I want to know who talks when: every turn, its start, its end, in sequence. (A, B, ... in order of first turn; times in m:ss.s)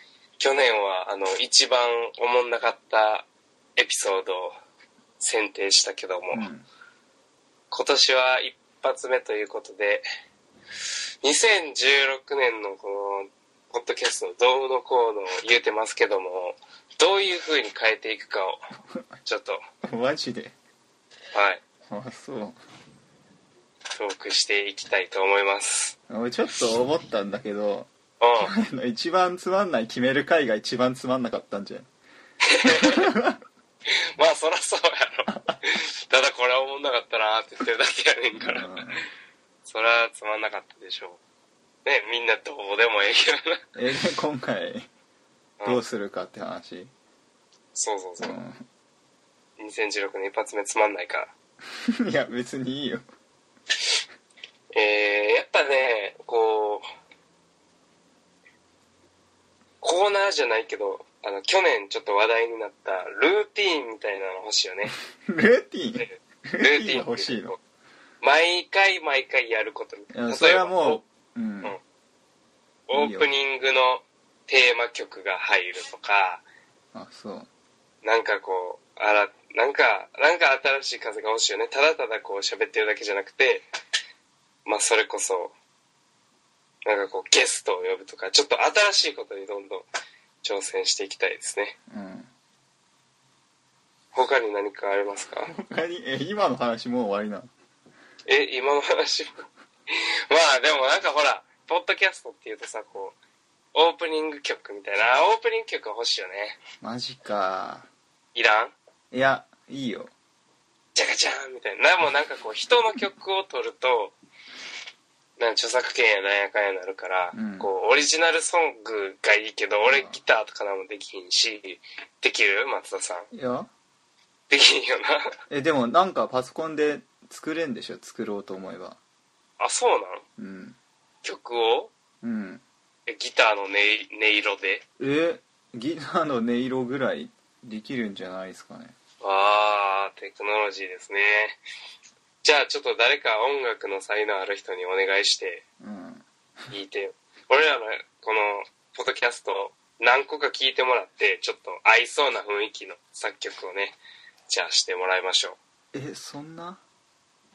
0:00.4-0:04.5 A
0:05.2-0:06.5 A
0:06.3-0:06.7 B
0:07.7-0:10.0 A
0:11.2-0:18.6 A
0:19.2-0:19.6 A
0:19.8-0:20.5 B
0:21.3-0:21.6 A
0:21.9-0:22.6 B
0:24.0-0:26.0 A
0:26.1-0:31.9 B
0:28.2-0:28.5 A
0:32.5-0:33.1 A
0:32.6-0:33.4 B
0:34.2-0:38.8 A
0:35.3-0:35.6 B
0:38.4-0:39.0 B
0:39.7-0:41.2 A
0:41.8-0:43.6 A
0:43.8-0:44.9 B
0:45.6-0:45.8 A
0:45.6-0:46.9 B
0:47.7-0:48.4 A
0:48.2-0:48.6 B
0:49.6-0:51.3 A
0:51.9-0:53.1 B
0:54.7-0:56.8 A
0:59.8-1:04.9 A
1:05.3-1:07.6 B
1:06.0-1:07.6 A
1:08.2-1:11.0 A
1:10.1-1:11.8 B
1:12.9-1:16.4 A
1:12.9-1:13.3 B
1:16.9-1:17.5 B
1:18.0-1:23.6 A
1:24.6-1:25.5 A
1:26.8-1:29.8 A
1:30.4-1:31.8 A
1:31.9-1:32.3 B
1:34.1-1:35.5 A
1:35.5-1:37.5 B
1:38.3-1:43.2 A
1:43.7-1:46.6 A
1:46.8-1:47.9 B
1:48.4-1:48.7 A
1:49.1-1:50.1 B
1:51.0-1:54.2 A
1:55.4-2:03.3 A
1:57.3-1:57.7 B
1:59.9-2:00.2 B
2:03.3-2:03.7 B
2:04.5-2:05.3 A
2:05.5-2:09.0 B
2:09.6-2:10.2 A
2:10.4-2:10.8 B
2:11.2-2:11.9 A
2:12.2-2:12.6 B
2:13.1-2:14.8 A
2:15.0-2:19.0 B
2:19.2-2:21.6 A
2:22.4-2:25.6 A
2:25.8-2:26.7 B
2:26.7-2:34.0 A
2:34.5-2:35.6 A
2:35.9-2:36.8 B